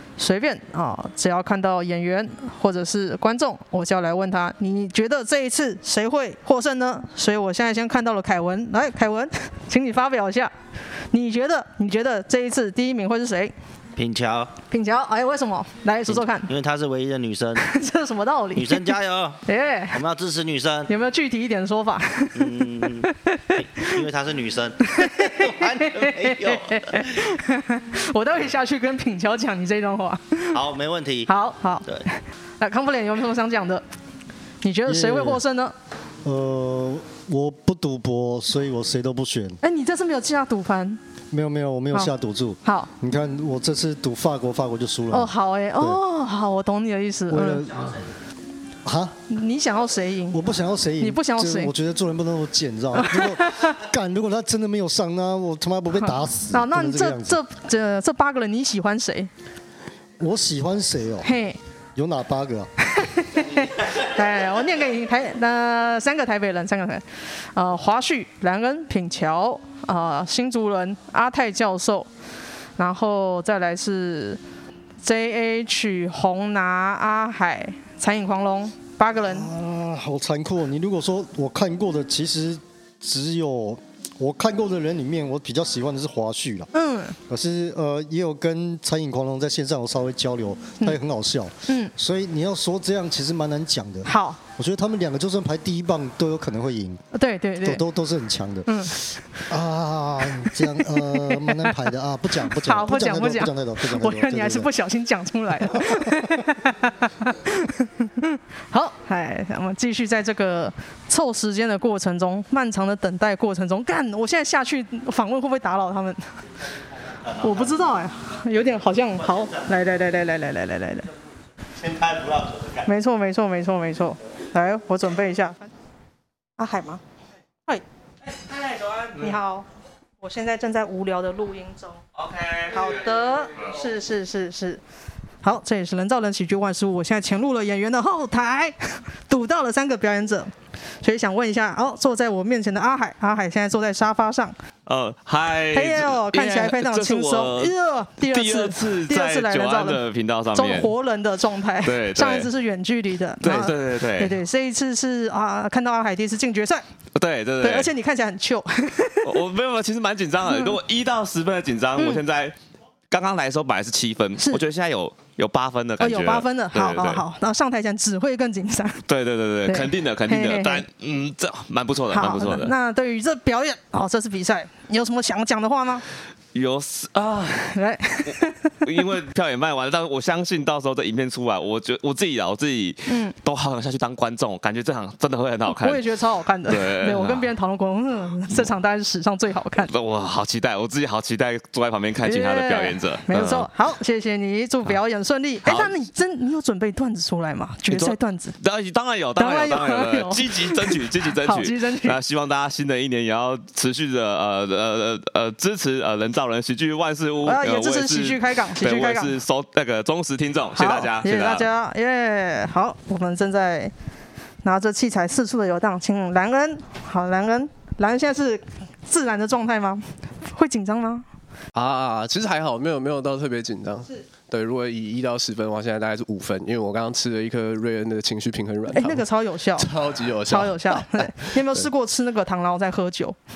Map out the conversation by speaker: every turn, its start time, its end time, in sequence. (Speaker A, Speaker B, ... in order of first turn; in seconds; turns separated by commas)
Speaker A: 0.2-10.5, Speaker A: 11.1-13.5, Speaker B: 13.9-14.5, Speaker A: 14.7-16.5, Speaker B: 16.1-17.6, Speaker A: 17.6-18.9, Speaker B: 18.5-19.4, Speaker A: 19.4-20.0, Speaker B: 19.9-20.9, Speaker A: 20.9-22.6, Speaker B: 22.3-27.0, Speaker A: 24.9-30.6, Speaker B: 30.5-31.3, Speaker A: 31.3-31.9, Speaker A: 32.6-33.8, Speaker A: 34.6-35.7, Speaker C: 34.9-35.4, Speaker C: 36.2-39.6, Speaker A: 39.6-41.0, Speaker C: 41.3-46.0, Speaker A: 45.1-47.6, Speaker C: 47.3-47.9, Speaker C: 48.8-49.1, Speaker A: 49.3-50.5, Speaker C: 50.3-57.4, Speaker A: 51.0-51.7, Speaker A: 53.0-53.7, Speaker A: 56.0-59.3, Speaker C: 60.2-61.3, Speaker A: 61.2-61.6, Speaker C: 62.0-62.7, Speaker A: 62.9-67.0, Speaker A: 67.5-72.1, Speaker A: 72.8-74.4, Speaker A: 75.0-79.5, Speaker C: 79.2-86.7, Speaker A: 86.7-87.2, Speaker C: 87.3-97.0, Speaker A: 94.1-94.4, Speaker A: 97.1-97.8, Speaker C: 97.6-98.7, Speaker A: 98.7-99.0, Speaker C: 99.5-104.7, Speaker A: 102.6-116.2, Speaker C: 105.7-106.2, Speaker B: 117.2-117.8, Speaker A: 117.4-121.0, Speaker B: 119.2-119.6, Speaker B: 121.8-122.8, Speaker A: 122.9-125.7, Speaker A: 126.6-127.0, Speaker A: 129.2-129.7, Speaker A: 130.2-132.0, Speaker D: 132.3-132.6, Speaker A: 132.7-134.8, Speaker A: 135.4-138.8, Speaker A: 139.3-140.5, Speaker A: 141.0-144.6, Speaker D: 144.8-150.9, Speaker A: 145.7-150.0, Speaker A: 150.5-156.8, Speaker D: 151.8-152.5, Speaker D: 153.4-154.4, Speaker D: 157.1-157.9, Speaker A: 157.6-159.3, Speaker D: 159.2-162.5, Speaker A: 160.5-160.7, Speaker A: 162.0-162.2, Speaker D: 163.1-167.2, Speaker A: 166.0-169.0, Speaker D: 169.1-172.7, Speaker A: 169.7-170.8, Speaker A: 172.1-176.0, Speaker D: 176.5-187.5, Speaker A: 177.7-178.7, Speaker A: 183.1-183.3, Speaker A: 185.7-189.9, Speaker D: 189.8-193.7, Speaker A: 192.2-198.5, Speaker D: 195.6-196.0, Speaker D: 197.9-211.7, Speaker A: 199.4-202.2, Speaker A: 207.4-209.4, Speaker A: 210.8-213.9, Speaker A: 214.6-221.2, Speaker E: 221.7-229.2, Speaker A: 228.9-229.9, Speaker E: 229.8-231.9, Speaker A: 230.4-233.4